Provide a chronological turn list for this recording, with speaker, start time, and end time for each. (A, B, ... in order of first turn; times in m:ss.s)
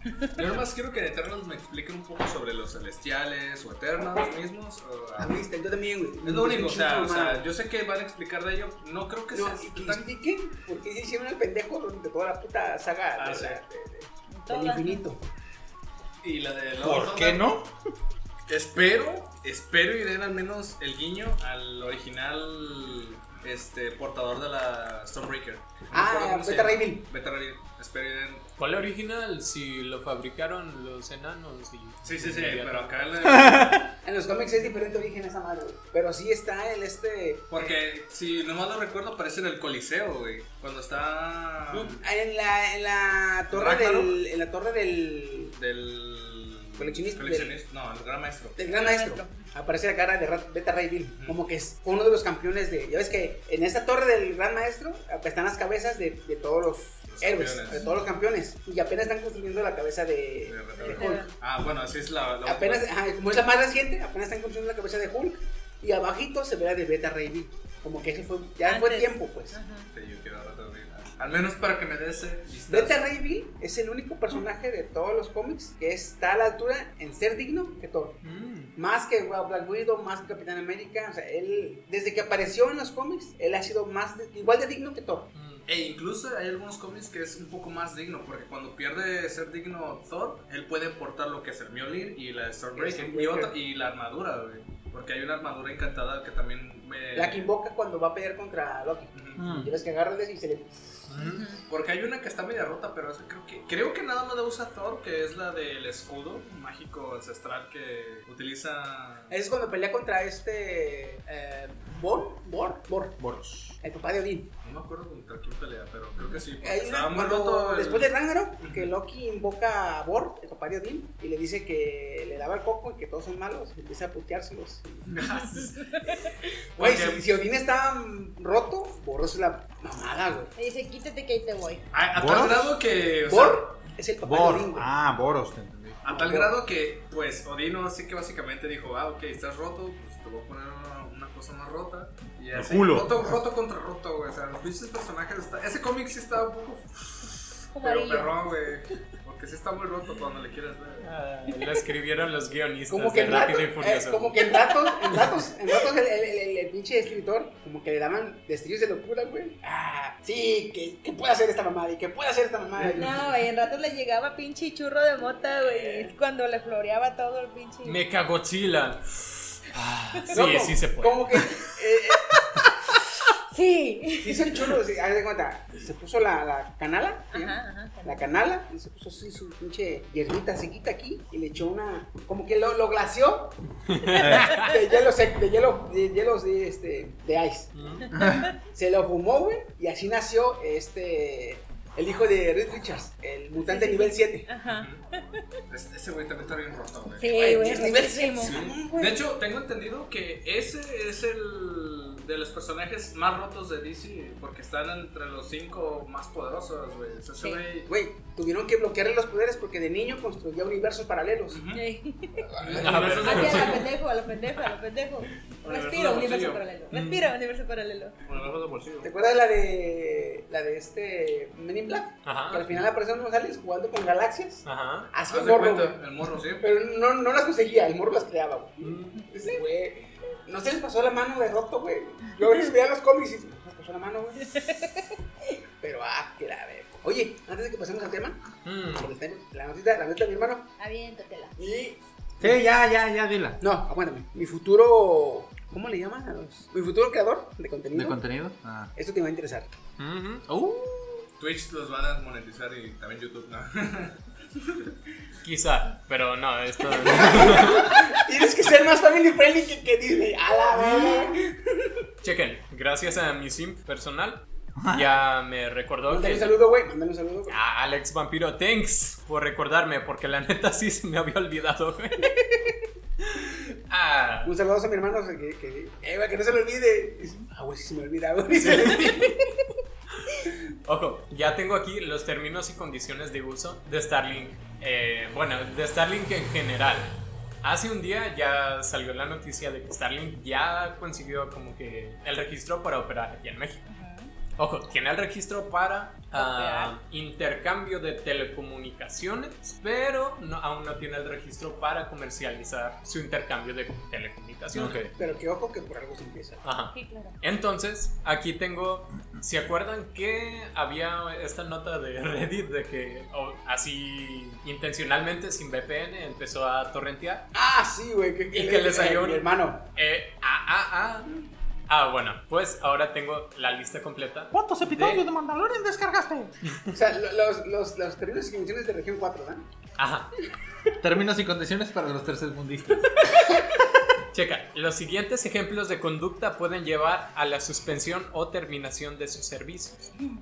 0:00.4-0:05.4 A
0:05.2-0:07.4 B
0:06.2-0:10.0 A
0:09.3-0:15.2 B
0:13.1-0:13.6 A
0:14.3-0:15.0 C
0:16.2-0:17.6 A
0:16.8-0:17.7 D
0:18.5-0:28.4 A
0:25.9-0:27.1 B
0:28.6-0:33.0 E
0:32.0-0:33.8 A
0:33.2-0:33.9 D
0:34.0-0:37.7 B
0:37.5-0:42.0 A
0:41.7-0:45.6 B
0:43.5-0:44.2 A
0:45.5-0:48.6 A
0:46.8-0:47.6 B
0:48.6-1:01.2 B
0:48.7-0:49.4 C
0:51.1-0:51.4 A
0:57.1-0:57.8 A
1:00.4-1:02.9 A
1:00.9-1:01.3 C
1:02.4-1:09.6 B
1:08.6-1:09.9 C
1:09.9-1:13.0 A
1:12.7-1:18.2 B
1:18.2-1:18.7 E
1:18.8-1:25.3 B
1:25.3-1:25.6 E
1:25.7-1:37.5 A
1:32.7-1:33.5 B
1:37.1-1:40.9 B
1:39.1-1:39.4 A
1:39.4-1:39.7 D
1:41.1-1:41.5 E
1:41.2-1:41.6 C
1:41.7-1:49.3 A
1:49.3-1:53.2 B
1:53.2-1:53.7 D
1:53.8-1:54.5 B
1:54.6-1:58.9 A
1:56.6-2:05.1 B
2:05.1-2:05.8 A
2:06.8-2:07.2 A
2:06.8-2:10.5 B
2:10.6-2:11.8 C
2:11.9-2:13.8 A
2:12.1-2:12.7 D
2:13.2-2:14.9 B
2:14.2-2:16.0 D
2:16.0-2:31.1 A
2:16.0-2:16.6 B
2:22.5-2:23.4 D
2:27.7-2:28.3 C
2:31.0-2:34.4 E
2:31.5-2:31.8 C
2:32.9-2:43.3 B
2:42.8-2:48.0 C
2:45.6-2:46.1 B
2:47.8-2:51.6 E
2:50.3-2:52.4 B
2:52.5-2:53.0 C
2:53.5-2:54.7 C
2:54.2-3:03.6 B
2:57.3-2:58.2 C
3:03.9-3:04.6 E
3:04.2-3:04.5 D
3:04.4-3:07.7 B
3:07.7-3:08.1 E
3:08.1-3:08.5 D
3:08.1-3:08.5 C
3:08.7-3:14.5 B
3:13.6-3:15.4 C
3:14.6-3:15.0 A
3:15.7-3:17.4 A
3:17.2-3:18.6 C
3:17.3-3:19.2 B
3:18.4-3:27.9 A
3:27.9-3:31.6 B
3:31.5-3:31.8 A
3:31.7-3:32.5 C
3:32.6-3:33.9 A
3:32.6-3:32.9 B
3:32.7-3:33.9 E
3:33.2-3:38.2 C
3:35.6-3:36.6 A
3:36.9-3:37.3 E
3:38.2-3:39.1 A
3:39.0-3:46.0 B
3:42.2-3:42.8 E
3:44.6-3:45.1 E
3:45.3-3:46.6 A
3:46.6-3:54.6 B
3:48.8-3:49.2 E
3:54.5-3:54.9 C
3:55.8-3:58.4 B
3:58.6-3:59.1 E
3:58.9-4:00.7 B
4:00.8-4:01.6 C
4:01.6-4:02.0 B
4:02.4-4:03.6 D
4:03.6-4:08.2 B
4:07.9-4:08.9 D
4:08.9-4:09.7 B
4:10.0-4:10.4 E
4:10.5-4:11.2 D
4:11.4-4:14.2 A
4:15.4-4:18.0 E
4:17.0-4:21.9 B
4:22.2-4:26.5 E
4:24.8-4:25.1 D
4:26.1-4:27.6 B
4:27.5-4:32.5 E
4:33.4-4:34.5 E
4:34.4-4:39.5 B
4:38.6-4:39.4 E
4:40.2-4:53.8 E
4:53.9-4:54.3 C
4:54.6-5:05.0 E
4:56.3-4:56.9 C
5:04.7-5:05.1 D
5:05.2-5:06.6 B
5:06.6-5:17.5 E
5:06.9-5:07.4 C
5:17.5-5:19.8 B
5:18.5-5:21.3 E
5:21.9-5:25.2 E
5:24.5-5:26.5 D
5:26.7-5:27.0 E
5:26.9-5:29.6 B
5:30.0-5:30.3 E
5:31.0-5:33.3 D
5:34.3-5:40.1 E